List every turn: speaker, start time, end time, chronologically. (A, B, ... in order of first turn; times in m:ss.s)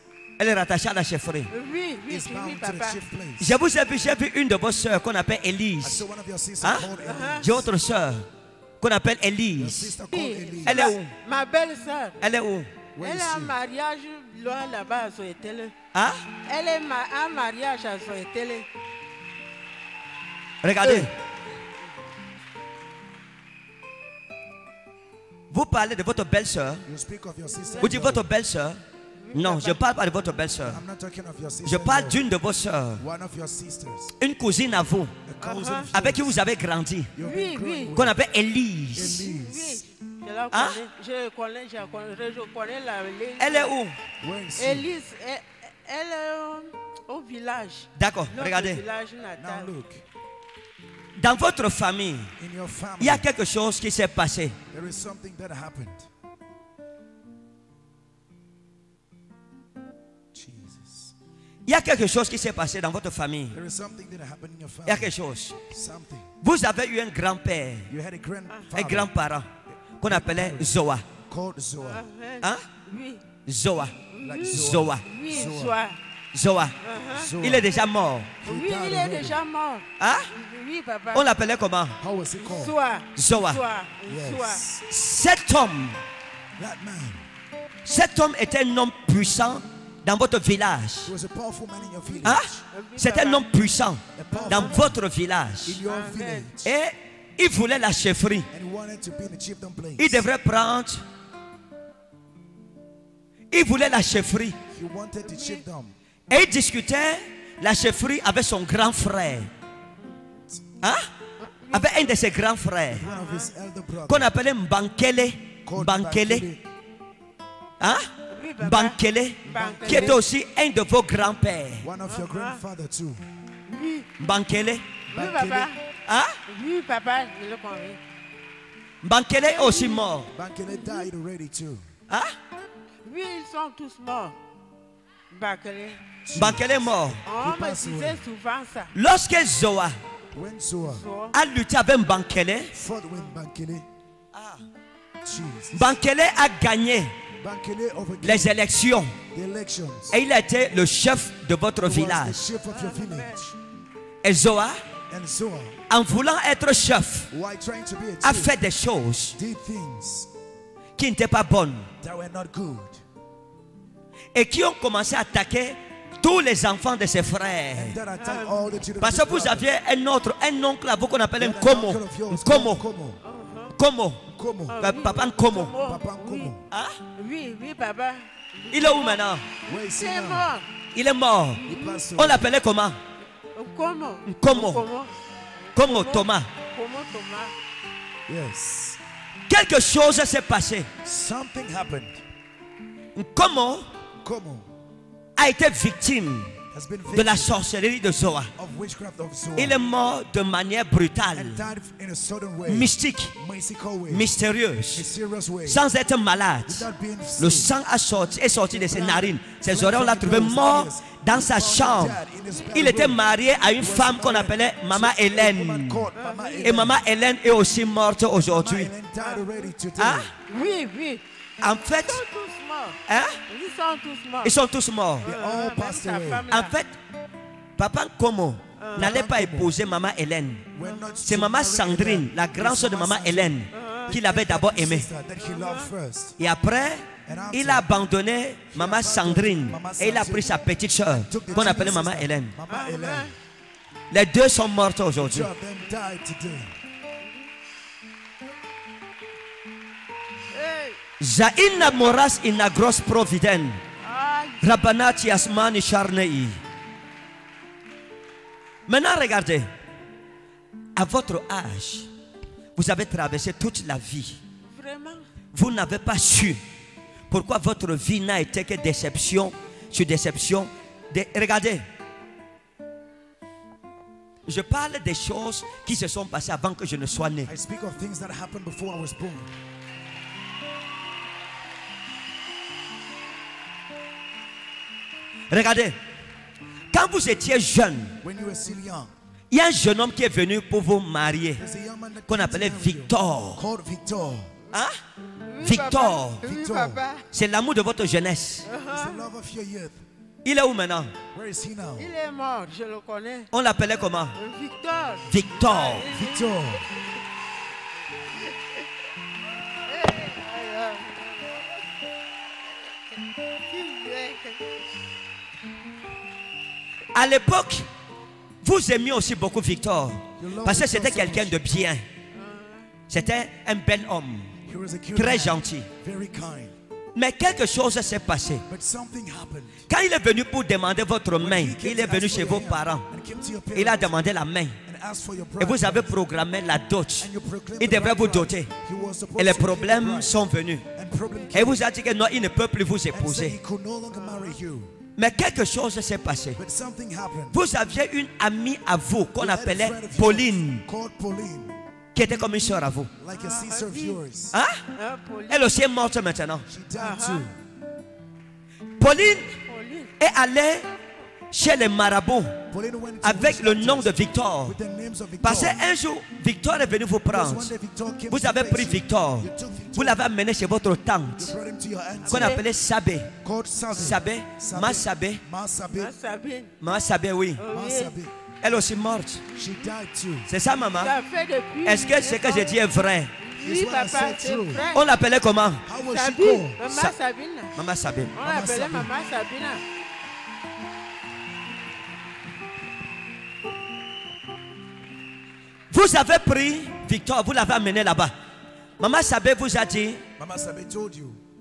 0:00.4-0:01.5 A
0:01.5-0:03.0 B
0:02.1-0:03.6 C
0:03.4-0:06.0 A
0:05.8-0:07.7 C
0:06.6-0:08.3 A
0:07.0-0:07.4 B
0:08.8-0:09.9 A
0:09.6-0:10.8 C
0:10.1-0:12.2 B
0:10.6-0:11.1 A
0:12.2-0:12.7 A
0:13.0-0:13.6 C
0:13.0-0:15.7 B
0:15.9-0:16.2 A
0:16.4-0:18.7 B
0:20.6-0:21.1 A
0:20.8-0:21.1 C
0:25.5-0:26.8 A
0:26.8-0:28.3 C
0:27.6-0:28.0 B
0:27.8-0:28.8 A
0:29.2-0:29.9 B
0:29.3-0:30.8 A
0:30.6-0:32.2 C
0:31.6-0:33.0 A
0:33.0-0:34.1 C
0:34.2-0:35.1 A
0:35.2-0:36.4 C
0:35.4-0:35.9 B
0:35.9-0:37.1 A
0:37.1-0:38.2 C
0:37.2-0:38.0 B
0:37.9-0:39.2 A
0:38.9-0:39.9 C
0:39.0-0:43.7 B
0:40.5-0:40.8 A
0:43.4-0:44.0 A
0:44.2-0:44.9 C
0:44.6-0:49.7 B
0:48.0-0:48.8 A
0:49.4-0:50.0 C
0:51.2-0:52.3 A
0:52.4-0:53.3 C
0:53.0-0:54.6 A
0:54.7-0:56.1 C
1:00.3-1:01.1 C
1:01.6-1:03.6 A
1:03.5-1:05.1 C
1:04.8-1:05.6 A
1:05.7-1:06.3 C
1:06.4-1:07.9 A
1:07.9-1:09.1 C
1:08.7-1:09.5 A
1:09.7-1:10.7 C
1:10.0-1:11.0 A
1:11.3-1:12.0 C
1:11.8-1:13.2 B
1:12.4-1:12.6 A
1:13.4-1:15.0 A
1:14.1-1:16.0 B
1:14.2-1:15.8 C
1:16.3-1:16.8 A
1:16.8-1:17.3 B
1:17.1-1:17.7 C
1:17.4-1:18.3 A
1:18.4-1:19.4 C
1:18.4-1:21.3 B
1:20.0-1:20.3 A
1:21.1-1:22.0 A
1:22.0-1:22.8 C
1:22.4-1:24.6 B
1:23.2-1:23.6 A
1:24.0-1:24.8 C
1:24.9-1:26.0 A
1:26.6-1:27.2 C
1:27.8-1:31.1 A
1:31.0-1:32.6 C
1:32.2-1:35.8 A
1:32.7-1:33.5 B
1:34.2-1:35.0 C
1:34.3-1:34.8 B
1:35.6-1:36.7 C
1:35.8-1:36.5 B
1:36.6-1:38.5 A
1:38.5-1:40.3 C
1:40.0-1:41.0 A
1:43.5-1:44.6 A
1:44.7-1:46.0 C
1:45.2-1:45.6 B
1:46.3-1:49.5 A
1:50.8-1:51.1 A
1:51.4-1:52.1 B
1:51.7-1:53.0 A
1:52.9-1:54.3 C
1:53.0-1:53.5 B
1:54.1-1:56.4 A
1:55.6-1:56.6 C
1:57.8-2:01.9 A
1:58.3-2:00.2 B
1:59.4-2:00.2 C
2:01.8-2:03.2 C
2:02.1-2:02.6 B
2:03.7-2:04.1 B
2:04.2-2:04.9 A
2:05.1-2:05.7 C
2:05.1-2:05.8 B
2:06.0-2:06.4 A
2:06.5-2:08.0 B
2:09.0-2:10.3 A
2:09.4-2:10.1 B
2:10.3-2:11.8 C
2:10.7-2:11.1 B
2:12.1-2:12.4 A
2:13.0-2:14.4 B
2:15.3-2:16.0 B
2:16.2-2:18.2 C
2:16.4-2:17.2 A
2:17.3-2:18.9 B
2:18.9-2:19.9 A
2:20.3-2:21.0 C
2:21.0-2:21.3 B
2:21.3-2:22.7 A
2:22.7-2:23.9 C
2:24.3-2:24.6 A
2:25.2-2:25.9 C
2:25.7-2:27.1 A
2:27.4-2:28.6 C
2:28.2-2:29.2 A
2:29.3-2:30.2 C
2:30.1-2:32.5 A
2:31.8-2:33.6 C
2:32.7-2:33.5 B
2:34.2-2:34.8 A
2:35.1-2:35.8 C
2:35.9-2:37.3 A
2:37.3-2:38.6 C
2:38.2-2:39.4 A
2:39.3-2:40.3 C
2:41.0-2:41.9 A
2:42.0-2:43.0 C
2:44.3-2:48.0 A
2:47.7-2:49.7 C
2:48.2-2:48.7 B
2:49.0-2:52.8 A
2:51.4-2:53.2 C
2:53.2-2:53.7 B
2:53.8-2:54.2 A
2:54.3-2:54.8 C
2:54.7-2:56.6 B
2:54.8-2:55.7 A
2:55.8-2:56.6 C
2:56.7-2:57.0 A
2:57.2-2:59.2 B
2:58.7-2:59.4 A
2:59.6-3:00.5 C
2:59.9-3:00.7 B
3:00.9-3:01.6 A
3:01.6-3:02.5 C
3:01.6-3:02.0 B
3:02.2-3:03.0 A
3:03.5-3:05.1 B
3:04.3-3:04.8 A
3:05.7-3:06.5 A
3:05.8-3:07.5 B
3:08.3-3:09.0 C
3:09.5-3:10.9 A
3:11.0-3:12.2 C
3:13.1-3:13.9 A
3:14.2-3:14.7 C
3:15.4-3:16.5 A
3:16.7-3:17.5 C
3:17.1-3:18.5 A
3:18.6-3:19.8 C
3:19.6-3:21.6 A
3:21.3-3:24.3 C
3:22.7-3:23.3 A
3:24.1-3:25.1 A
3:24.9-3:25.8 C
3:25.6-3:26.8 A
3:26.6-3:27.8 C
3:27.4-3:32.2 A
3:28.9-3:29.2 B
3:28.9-3:37.0 C
3:32.7-3:36.1 A
3:36.1-3:36.9 B
3:36.6-3:38.9 A
3:38.5-3:40.3 C
3:39.2-3:39.5 B
3:40.0-3:40.3 A
3:40.5-3:41.2 B
3:41.6-3:42.2 A
3:42.0-3:43.0 B
3:43.1-3:43.4 A
3:43.5-3:44.6 B
3:44.4-3:45.3 A
3:45.2-3:46.5 C
3:45.2-3:46.8 B
3:46.5-3:46.9 A
3:47.8-3:50.7 A
3:48.8-3:49.1 B
3:48.9-3:49.8 C
3:50.7-3:56.4 C
3:50.8-3:51.1 B
3:51.2-3:55.1 A
3:53.7-3:54.1 B
3:55.4-3:55.9 B
3:56.4-4:02.6 A
3:57.2-3:57.9 C
3:58.7-4:00.6 C
4:01.3-4:03.3 C
4:02.7-4:03.3 B
4:04.1-4:05.5 A
4:05.2-4:06.7 C
4:10.5-4:11.0 B
4:11.2-4:13.8 A
4:14.0-4:14.7 B
4:14.6-4:16.6 A
4:18.9-4:19.7 A
4:21.0-4:22.1 A
4:22.8-4:24.4 A
4:24.7-4:25.3 B
4:25.5-4:26.6 A
4:27.3-4:31.9 A
4:34.4-4:37.5 A
4:37.4-4:39.5 C
4:45.5-4:46.0 A
4:46.9-4:48.2 A
4:48.2-4:49.1 C
4:49.5-4:51.6 A
4:51.6-4:54.5 C
4:52.3-4:53.6 A
4:54.7-4:55.0 A
4:55.4-4:57.2 B
4:55.6-4:56.4 A
4:56.4-4:57.0 C
4:57.3-4:58.7 A
4:58.6-4:59.2 B
4:58.9-5:00.0 C
5:00.4-5:01.1 A
5:01.3-5:02.1 C
5:02.0-5:03.5 B
5:03.5-5:04.4 A
5:04.4-5:07.0 B
5:05.3-5:06.1 A
5:06.1-5:06.8 C
5:09.9-5:11.4 B
5:13.7-5:14.6 B
5:17.1-5:17.9 A
5:18.6-5:22.0 A
5:20.4-5:21.6 C
5:22.3-5:22.9 B
5:23.1-5:24.5 A
5:24.6-5:26.7 C
5:25.1-5:25.9 A
5:27.1-5:28.6 A
5:28.7-5:29.9 C
5:29.9-5:33.1 A
5:31.4-5:34.2 C
5:33.7-5:34.8 A
5:34.8-5:36.1 C
5:35.6-5:38.7 A
5:37.2-5:40.4 C
5:39.4-5:40.8 A
5:40.9-5:41.8 C
5:41.5-5:43.6 A
5:43.1-5:44.9 C
5:45.2-5:46.6 A
5:46.6-5:47.6 C
5:47.5-5:50.8 A
5:49.4-5:51.8 C
5:52.1-5:53.1 A
5:53.2-5:54.6 C
5:53.3-5:54.2 B
5:54.5-5:54.8 A
5:54.9-5:55.7 B
5:55.5-5:56.7 A
5:56.7-5:57.6 C
5:57.0-5:57.5 B
5:59.0-5:59.5 A
5:59.6-6:00.1 B
6:00.2-6:00.9 A
6:01.5-6:02.6 A
6:02.7-6:05.8 C
6:03.2-6:04.8 A
6:05.4-6:07.7 A
6:07.3-6:10.3 C
6:08.3-6:11.5 A
6:11.4-6:12.6 C
6:12.3-6:12.6 B
6:12.3-6:13.3 A
6:13.4-6:16.1 C
6:13.9-6:15.4 A
6:15.9-6:16.7 B
6:16.8-6:17.6 A
6:17.6-6:18.2 B
6:17.7-6:18.3 C
6:18.6-6:19.4 A
6:19.5-6:20.5 C
6:20.5-6:21.1 A
6:21.0-6:22.9 B
6:21.8-6:23.3 A
6:23.4-6:25.0 B
6:23.6-6:24.8 C
6:24.9-6:25.8 A
6:25.8-6:26.8 C
6:26.1-6:27.7 B
6:26.8-6:27.1 A
6:27.7-6:28.3 A
6:28.4-6:29.8 B
6:28.4-6:29.1 C
6:35.9-6:38.3 A
6:39.0-6:40.2 A
6:40.4-6:41.4 C